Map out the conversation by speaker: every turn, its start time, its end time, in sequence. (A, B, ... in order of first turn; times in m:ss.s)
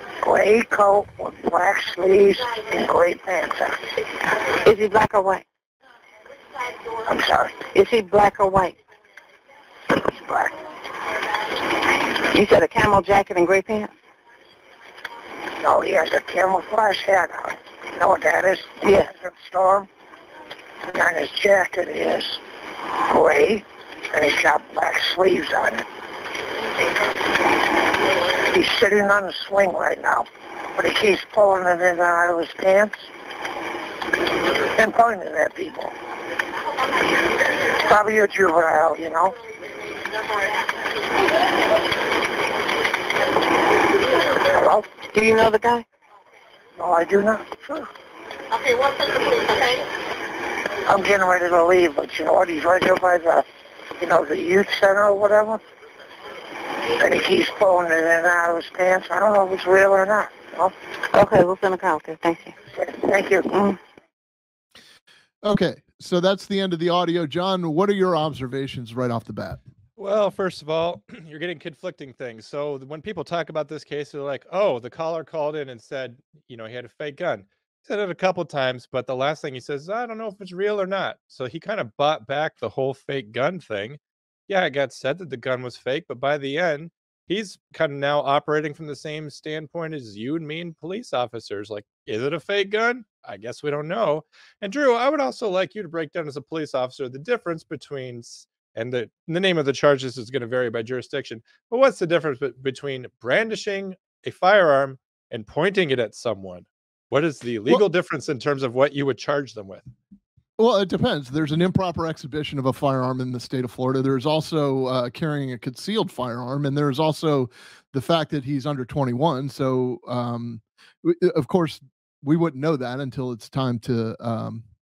0:00.2-0:03.9 A
0:04.6-0:05.4 B
0:07.0-0:07.6 A
0:07.7-0:08.8 B
0:09.9-0:10.6 A
0:12.3-0:13.9 B
0:15.6-0:19.9 A
0:18.8-0:19.1 B
0:20.8-0:22.4 A
0:23.0-0:25.8 A
0:28.5-0:33.0 A
0:34.7-0:35.9 A
0:37.7-0:39.3 A
0:44.4-0:44.9 A
0:45.1-0:45.8 B
0:46.8-0:47.9 A
0:50.8-0:53.4 A
0:54.0-0:55.6 A
0:57.0-1:00.7 A
1:01.1-1:02.5 B
1:02.7-1:03.5 A
1:03.5-1:03.8 B
1:05.4-1:09.6 C
1:10.0-1:49.8 D
1:50.6-2:04.6 C